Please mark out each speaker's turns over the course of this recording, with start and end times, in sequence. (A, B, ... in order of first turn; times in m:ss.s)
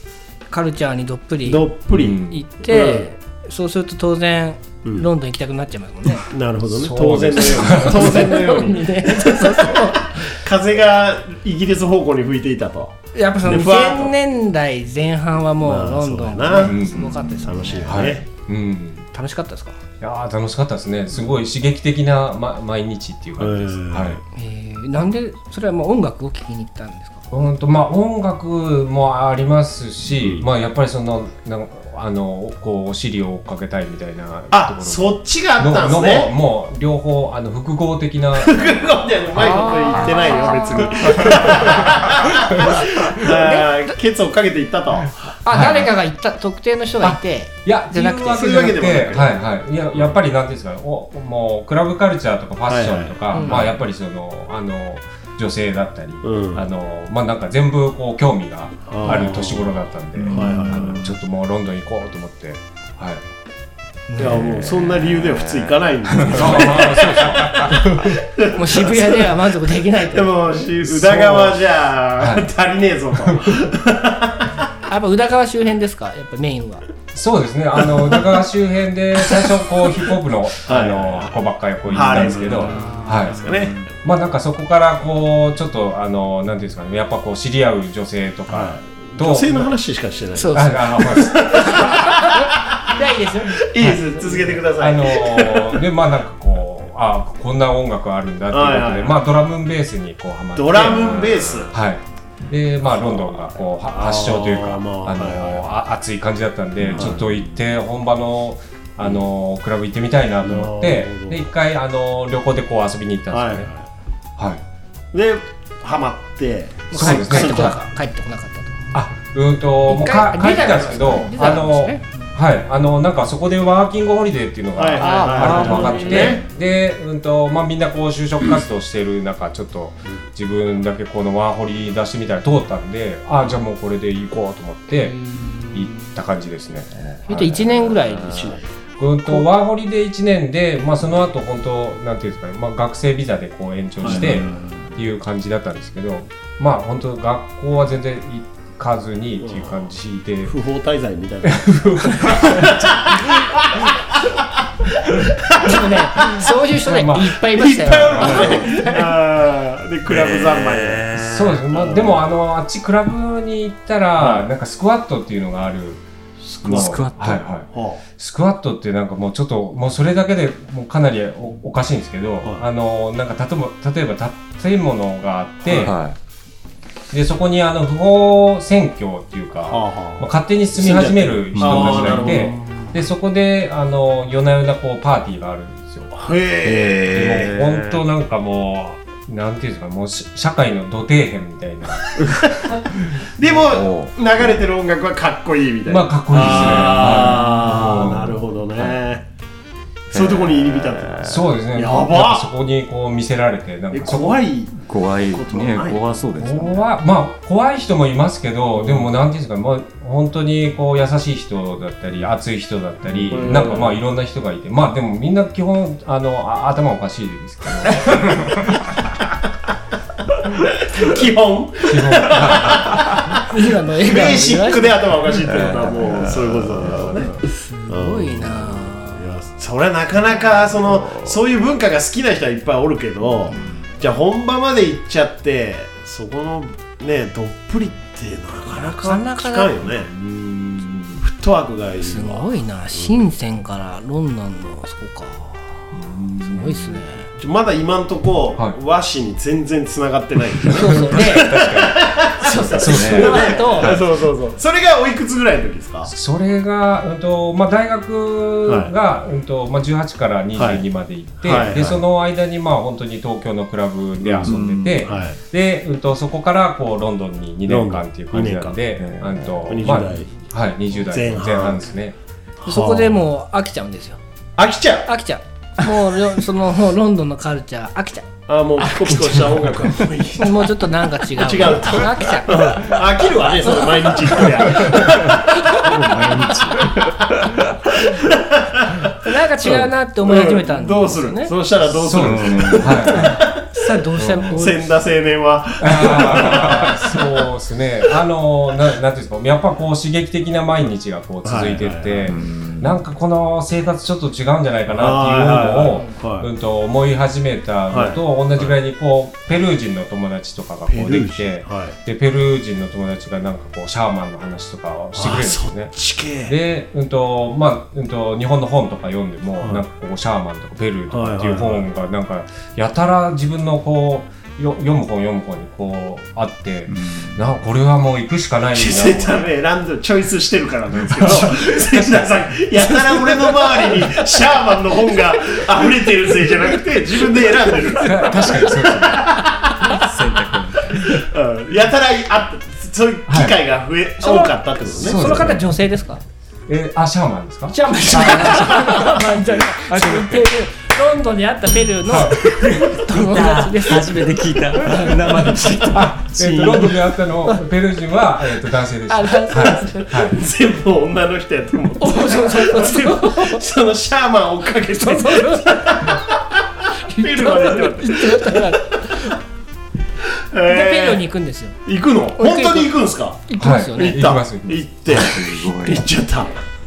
0:00.5-0:06.3 A
0:01.4-0:03.1 B
0:01.9-0:02.4 C
0:06.3-0:14.1 B
0:06.7-0:08.2 C
0:07.5-0:10.3 A
0:13.1-0:18.1 A
0:15.6-0:18.2 B
0:16.6-0:17.2 C
0:17.8-0:19.1 C
0:19.1-0:19.8 A
0:20.0-0:24.2 C
0:23.4-0:24.2 B
0:24.3-0:27.2 A
0:27.3-0:39.0 C
0:34.5-0:36.3 B
0:38.4-0:45.3 B
0:39.4-0:41.6 A
0:40.7-0:42.1 C
0:42.5-0:43.9 A
0:45.4-0:48.6 A
0:45.5-0:45.9 C
0:47.0-1:03.2 C
0:48.3-0:49.4 B
0:52.7-0:53.7 B
0:53.3-0:53.7 A
0:56.2-0:56.6 B
0:58.9-0:59.7 B
1:00.3-1:01.1 B
1:04.1-1:04.6 A
1:04.2-1:09.4 B
1:04.7-1:06.8 D
1:06.2-1:08.2 C
1:08.5-1:10.7 A
1:10.1-1:14.7 B
1:10.9-1:11.6 C
1:12.2-1:12.5 C
1:14.9-1:16.8 A
1:17.1-1:29.8 C
1:19.3-1:19.8 B
1:20.6-1:21.4 B
1:21.9-1:23.9 B
1:22.5-1:23.2 A
1:23.4-1:23.8 D
1:28.5-1:35.8 B
1:30.4-1:30.8 A
1:30.5-1:31.9 C
1:31.5-1:34.5 A
1:34.7-1:53.7 C
1:38.5-1:39.2 B
1:40.5-1:41.7 B
1:42.9-1:45.7 B
1:46.9-1:47.3 B
1:50.4-1:51.4 B
1:53.3-1:53.8 B
1:54.4-1:54.6 C
1:55.1-1:57.8 B
1:56.9-1:58.9 A
1:56.9-1:57.7 C
1:58.9-2:15.2 C
1:59.9-2:02.3 A
2:04.8-2:06.4 B
2:05.0-2:06.4 A
2:14.9-2:16.0 A
2:15.7-2:17.9 C
2:17.3-2:18.6 A
2:18.1-2:18.6 D
2:19.0-2:30.5 C
2:24.0-2:24.4 B
2:24.0-2:24.9 D
2:29.4-2:29.8 B
2:30.4-2:34.4 B
2:31.4-2:33.2 C
2:34.9-2:36.5 B
2:35.6-2:39.1 A
2:36.8-2:37.4 C
2:37.4-2:41.1 B
2:38.0-2:38.7 C
2:40.1-2:42.2 D
2:41.1-2:46.0 C
2:46.6-2:47.4 D
2:46.6-2:47.1 B
2:46.6-2:55.9 C
2:47.7-2:48.0 B
2:55.7-2:56.2 D
2:57.1-3:06.1 C
2:59.7-3:02.9 B
3:01.5-3:02.5 D
3:06.1-3:07.5 B
3:06.6-3:08.0 D
3:07.1-3:12.4 C
3:13.3-3:19.2 B
3:13.4-3:14.1 D
3:15.9-3:18.4 C
3:16.3-3:18.0 D
3:20.1-3:22.5 B
3:20.1-3:21.4 D
3:21.2-3:24.4 C
3:23.9-3:26.0 B
3:24.8-3:26.8 D
3:26.4-3:38.8 C
3:33.2-3:33.9 D
3:33.3-3:34.0 B
3:40.3-4:00.1 B
3:41.9-3:43.3 C
3:43.5-3:45.1 A
3:45.4-3:47.4 D
3:47.5-3:49.3 A
3:50.7-3:51.3 D
3:58.7-3:59.8 A
4:00.0-4:01.2 C
4:01.2-4:03.1 B
4:02.0-4:05.8 A
4:05.9-4:07.0 C
4:06.4-4:07.3 A
4:07.4-4:16.1 B
4:10.7-4:11.6 A
4:10.9-4:14.0 C
4:12.4-4:14.0 A
4:12.8-4:13.4 D
4:16.0-4:32.2 C
4:18.6-4:18.9 B
4:20.5-4:20.8 B
4:21.4-4:22.0 B
4:24.2-4:25.4 B
4:24.4-4:25.1 D
4:27.7-4:28.8 B
4:29.0-4:29.6 D
4:29.6-4:30.3 B
4:31.1-4:31.8 B
4:32.6-4:33.2 B
4:32.6-4:34.2 A
4:34.6-4:35.1 B
4:35.1-4:38.3 A
4:38.5-4:45.5 B
4:38.8-4:39.4 A
4:40.4-4:42.8 A
4:43.6-4:45.8 A
4:45.0-4:48.1 D
4:47.9-4:54.0 B
4:49.2-4:51.5 A
4:51.9-4:53.4 C
4:52.1-4:53.2 D
4:53.7-4:54.9 A
4:54.2-4:54.6 C
4:54.5-4:57.3 B
4:55.8-5:15.9 C
4:56.1-4:56.9 D
5:01.4-5:02.3 B
5:02.2-5:03.0 D
5:04.9-5:06.5 B
5:07.9-5:08.7 B
5:10.9-5:12.0 B
5:15.1-5:16.6 B
5:16.4-5:29.5 C
5:21.1-5:21.8 B
5:26.9-5:27.4 D
5:28.7-5:40.1 B
5:31.1-5:32.2 C
5:38.0-5:39.3 C
5:39.8-5:41.2 D
5:40.9-5:45.5 B
5:43.3-5:43.6 C
5:44.2-5:46.2 A
5:44.9-5:45.6 C
5:46.7-5:49.3 C
5:47.7-5:55.8 A
5:49.9-5:50.3 D
5:52.1-5:52.4 C
5:52.2-5:56.8 D
5:55.9-6:00.4 C
5:59.1-6:00.2 A
6:00.2-6:09.1 B
6:02.0-6:03.6 A
6:04.8-6:06.1 A
6:07.1-6:09.4 A
6:10.5-6:11.2 B
6:10.7-6:11.8 A
6:11.8-6:16.6 B
6:12.4-6:14.3 A
6:13.6-6:14.9 C
6:15.1-6:16.1 D